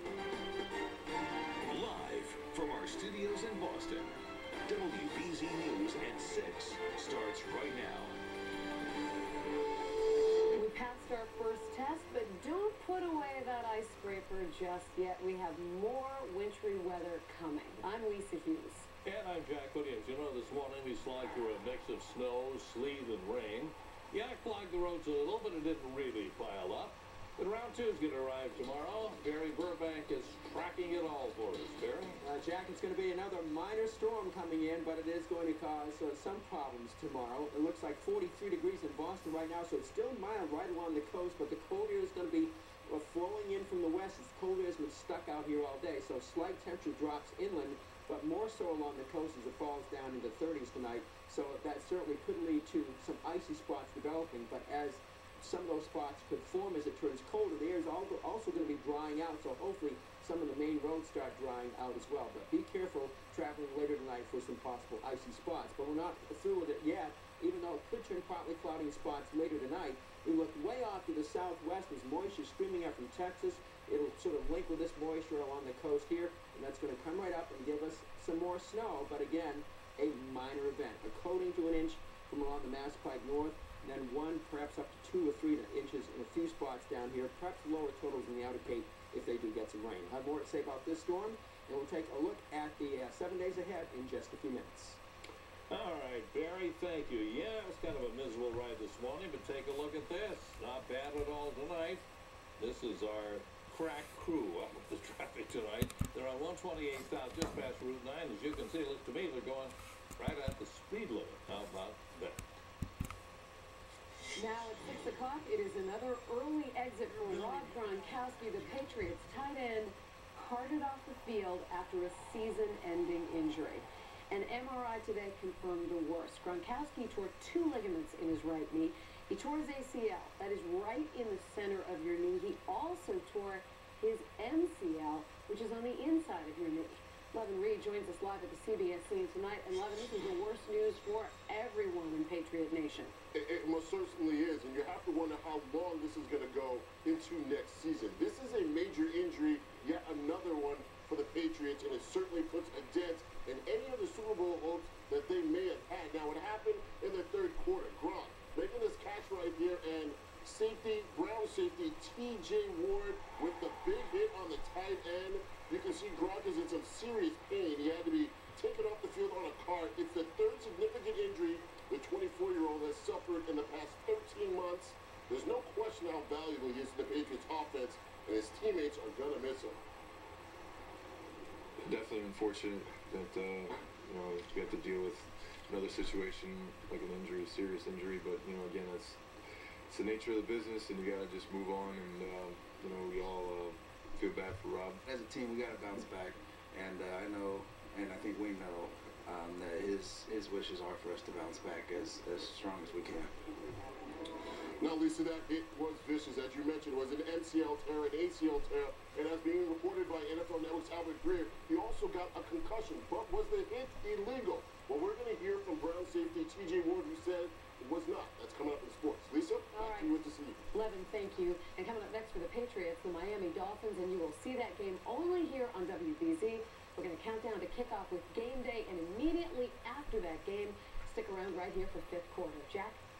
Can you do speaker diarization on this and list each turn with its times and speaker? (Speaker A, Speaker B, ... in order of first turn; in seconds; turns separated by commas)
Speaker A: 1.6-4.1, Speaker A: 4.7-8.2, Speaker B: 10.5-18.9, Speaker C: 19.0-32.2, Speaker D: 32.2-95.0, Speaker C: 95.7-102.0, Speaker C: 102.6-112.4, Speaker B: 114.3-143.1, Speaker E: 143.3-179.8, Speaker F: 181.8-189.2, Speaker F: 189.9-195.0, Speaker G: 195.0-203.3, Speaker E: 204.8-220.6, Speaker B: 219.7-220.1, Speaker B: 220.7-233.0